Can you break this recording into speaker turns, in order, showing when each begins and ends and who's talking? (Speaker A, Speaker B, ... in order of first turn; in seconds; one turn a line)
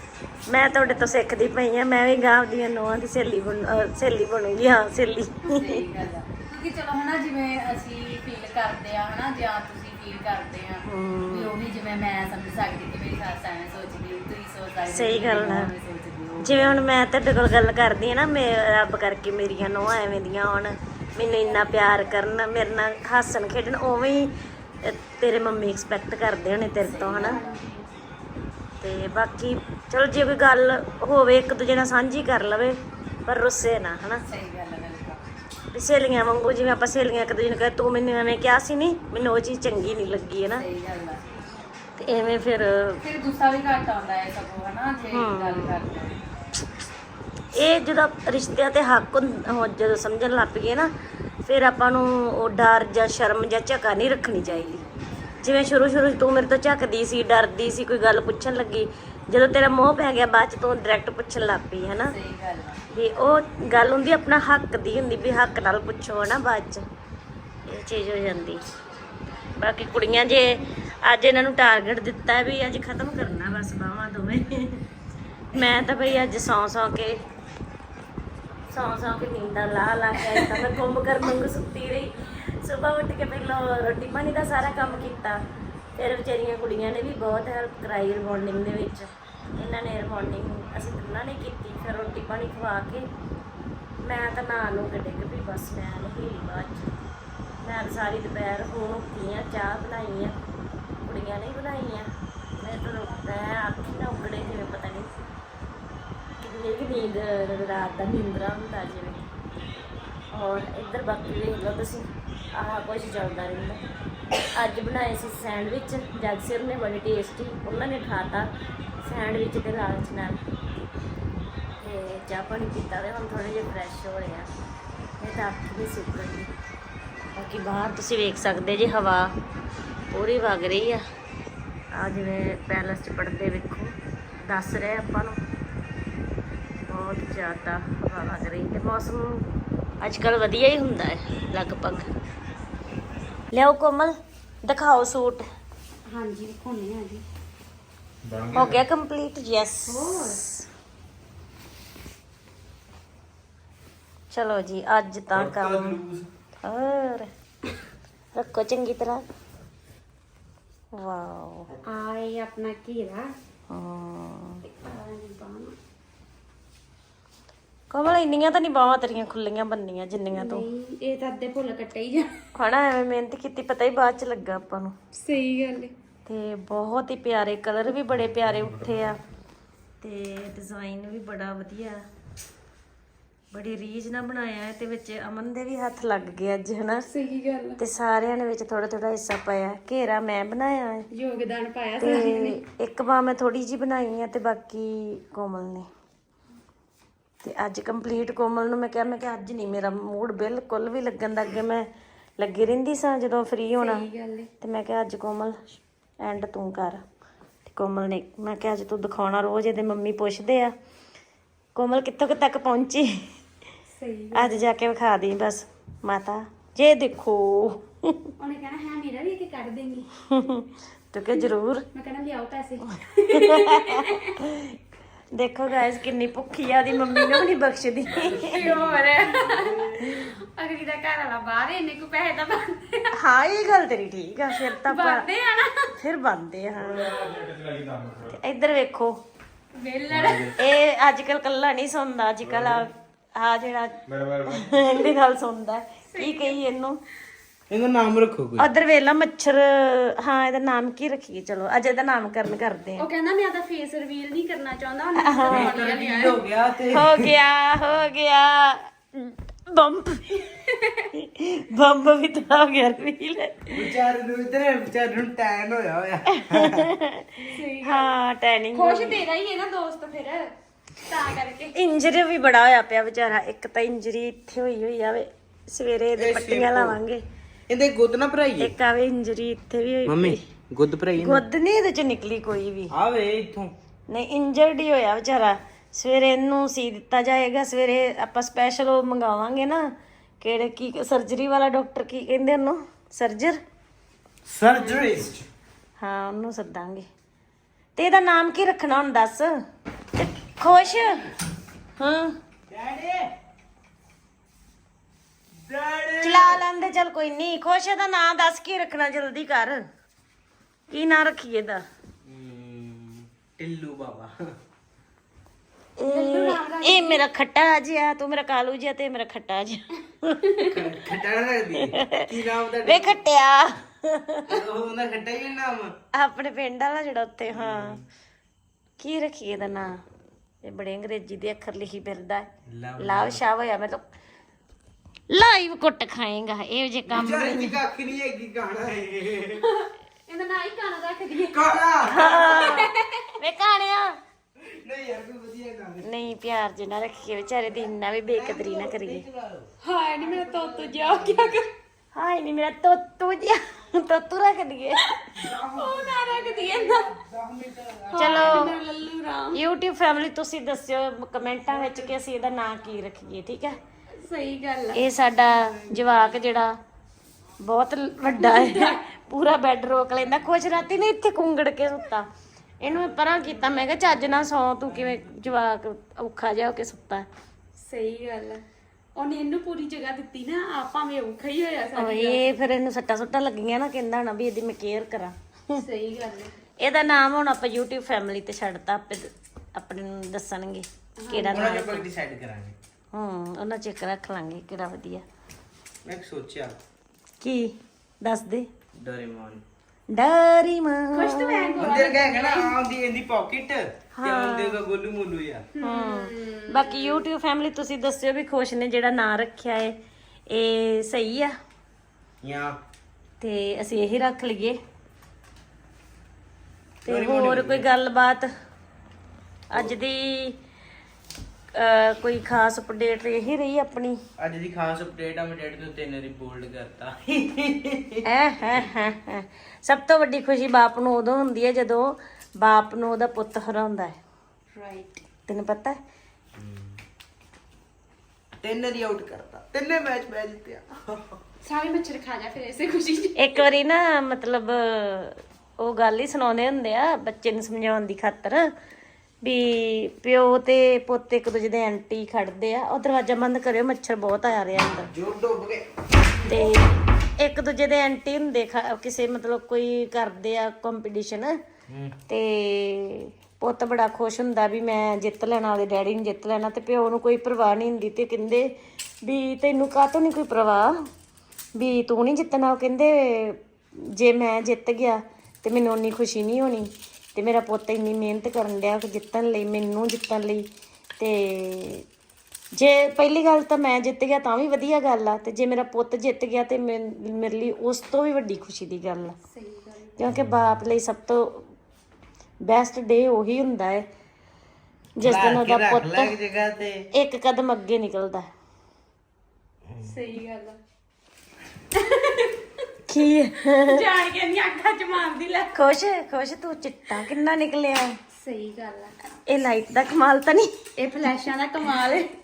Speaker A: 0.5-5.7
Speaker B: 5.5-16.9
Speaker A: 10.8-11.5
Speaker A: 14.9-15.7
Speaker A: 16.4-27.4
Speaker B: 26.8-27.5
Speaker C: 27.2-27.9
Speaker A: 28.8-34.2
Speaker B: 34.2-35.2
Speaker A: 35.7-40.6
Speaker B: 40.6-41.2
Speaker A: 42.0-43.0
Speaker B: 43.0-46.5
Speaker A: 45.1-45.9
Speaker A: 47.5-50.9
Speaker A: 51.5-54.8
Speaker A: 55.4-62.1
Speaker B: 62.0-62.8
Speaker A: 62.9-66.8
Speaker A: 67.7-68.6
Speaker A: 69.6-74.8
Speaker A: 75.5-77.2
Speaker A: 78.7-85.4
Speaker A: 86.0-93.1
Speaker A: 94.0-96.9
Speaker A: 97.6-100.3
Speaker A: 101.0-105.1
Speaker A: 106.4-109.2
Speaker A: 110.3-113.8
Speaker A: 114.5-118.5
Speaker A: 119.0-120.4
Speaker A: 121.8-124.5
Speaker A: 125.2-126.5
Speaker A: 127.4-129.3
Speaker A: 130.1-131.0
Speaker A: 131.9-133.9
Speaker A: 134.5-135.4
Speaker A: 136.9-139.5
Speaker A: 140.0-142.1
Speaker A: 143.5-145.4
Speaker C: 146.1-147.2
Speaker A: 148.5-150.7
Speaker C: 149.9-150.4
Speaker A: 154.3-156.0
Speaker D: 155.3-156.3
Speaker A: 156.6-157.3
Speaker A: 158.3-159.2
Speaker A: 160.9-161.7
Speaker C: 161.8-163.3
Speaker A: 163.7-164.6
Speaker C: 164.7-165.8
Speaker A: 167.9-170.7
Speaker C: 170.3-172.4
Speaker A: 172.6-174.9
Speaker C: 175.2-175.9
Speaker A: 176.3-179.2
Speaker A: 180.0-182.0
Speaker A: 183.5-187.1
Speaker C: 187.1-187.8
Speaker A: 187.8-191.1
Speaker C: 191.1-192.6
Speaker A: 192.0-195.9
Speaker A: 197.4-201.9
Speaker A: 202.4-204.1
Speaker C: 203.8-204.5
Speaker A: 204.6-205.6
Speaker A: 206.2-207.0
Speaker A: 207.7-210.7
Speaker A: 211.8-213.2
Speaker C: 213.9-214.6
Speaker A: 214.3-217.9
Speaker C: 218.4-220.1
Speaker A: 220.3-221.9
Speaker C: 221.9-224.3
Speaker A: 223.3-224.8
Speaker A: 225.3-228.7
Speaker C: 228.2-233.1
Speaker D: 228.5-229.8
Speaker A: 230.0-230.2
Speaker A: 233.2-235.2
Speaker C: 234.5-235.9
Speaker A: 236.0-237.3
Speaker C: 237.0-237.5
Speaker A: 238.1-239.2
Speaker C: 239.7-240.6
Speaker D: 240.1-240.5
Speaker A: 240.6-247.0
Speaker C: 246.1-246.6
Speaker D: 247.7-248.7
Speaker A: 248.6-253.1
Speaker C: 253.0-256.4
Speaker A: 255.2-255.7
Speaker D: 255.5-257.3
Speaker A: 256.9-260.4
Speaker C: 260.5-261.1
Speaker A: 261.1-263.8
Speaker D: 263.7-266.9
Speaker A: 266.3-269.2
Speaker C: 267.4-268.1
Speaker C: 268.7-270.5
Speaker C: 271.0-271.8
Speaker A: 271.7-277.2
Speaker D: 276.2-277.0
Speaker D: 277.7-278.7
Speaker A: 278.6-280.4
Speaker D: 280.1-281.4
Speaker A: 281.2-282.9
Speaker D: 282.9-283.7
Speaker A: 284.1-289.8
Speaker A: 290.4-293.6
Speaker D: 294.5-295.5
Speaker A: 296.0-297.1
Speaker A: 298.0-299.5
Speaker A: 300.2-301.2
Speaker D: 300.7-301.2
Speaker A: 302.0-302.3
Speaker D: 302.7-303.3
Speaker D: 305.6-306.6
Speaker A: 306.2-309.8
Speaker A: 310.9-311.8
Speaker D: 312.2-314.3
Speaker A: 316.0-320.8
Speaker C: 316.1-317.2
Speaker D: 320.7-323.2
Speaker A: 321.9-322.2
Speaker A: 322.8-324.5
Speaker D: 324.5-325.9
Speaker A: 326.1-328.0
Speaker D: 327.5-328.1
Speaker A: 329.0-330.0
Speaker A: 330.6-334.0
Speaker D: 332.7-333.4
Speaker A: 335.3-337.8
Speaker D: 337.1-339.7
Speaker C: 339.6-343.1
Speaker D: 341.5-342.9
Speaker A: 342.1-344.2
Speaker D: 344.6-346.1
Speaker A: 346.0-349.2
Speaker D: 348.3-351.6
Speaker C: 349.8-351.7
Speaker A: 352.1-355.1
Speaker C: 355.2-357.2
Speaker D: 355.4-358.7
Speaker C: 358.1-359.6
Speaker A: 358.2-358.8
Speaker A: 359.5-363.8
Speaker C: 364.2-365.0
Speaker A: 364.9-366.7
Speaker A: 367.6-372.3
Speaker C: 368.3-369.0
Speaker A: 372.8-377.3
Speaker C: 377.8-378.6
Speaker C: 379.2-382.5
Speaker A: 382.0-385.8
Speaker C: 385.7-386.5
Speaker A: 386.8-392.1
Speaker C: 391.2-391.8
Speaker D: 391.5-392.8
Speaker A: 393.1-395.2
Speaker D: 396.1-396.8
Speaker A: 397.4-398.7
Speaker D: 399.0-399.6
Speaker A: 400.1-401.9
Speaker C: 401.1-402.8
Speaker D: 401.8-405.7
Speaker A: 404.2-404.8
Speaker C: 405.8-407.2
Speaker A: 405.8-409.9
Speaker A: 410.5-411.5
Speaker D: 412.4-412.8
Speaker A: 413.4-414.8
Speaker A: 417.1-418.5
Speaker D: 417.1-417.9
Speaker A: 419.7-420.6
Speaker A: 421.8-424.2
Speaker D: 424.4-428.2
Speaker A: 428.2-434.2
Speaker C: 434.7-435.2
Speaker A: 435.5-436.0
Speaker D: 436.6-437.0
Speaker D: 438.6-441.4
Speaker C: 441.6-443.6
Speaker A: 443.4-448.7
Speaker A: 449.4-455.1
Speaker D: 454.9-455.9
Speaker A: 456.4-461.6
Speaker D: 461.9-462.2
Speaker A: 462.3-470.9
Speaker A: 471.8-480.7
Speaker A: 481.2-482.1
Speaker A: 482.7-489.4
Speaker C: 489.5-490.1
Speaker A: 490.2-491.7
Speaker A: 492.6-494.1
Speaker A: 495.2-496.3
Speaker D: 495.2-497.1
Speaker A: 497.1-498.5
Speaker C: 500.0-500.8
Speaker C: 501.9-502.6
Speaker A: 503.1-503.9
Speaker C: 503.6-505.7
Speaker A: 505.7-508.2
Speaker C: 508.4-509.1
Speaker A: 509.5-510.7
Speaker C: 511.0-512.3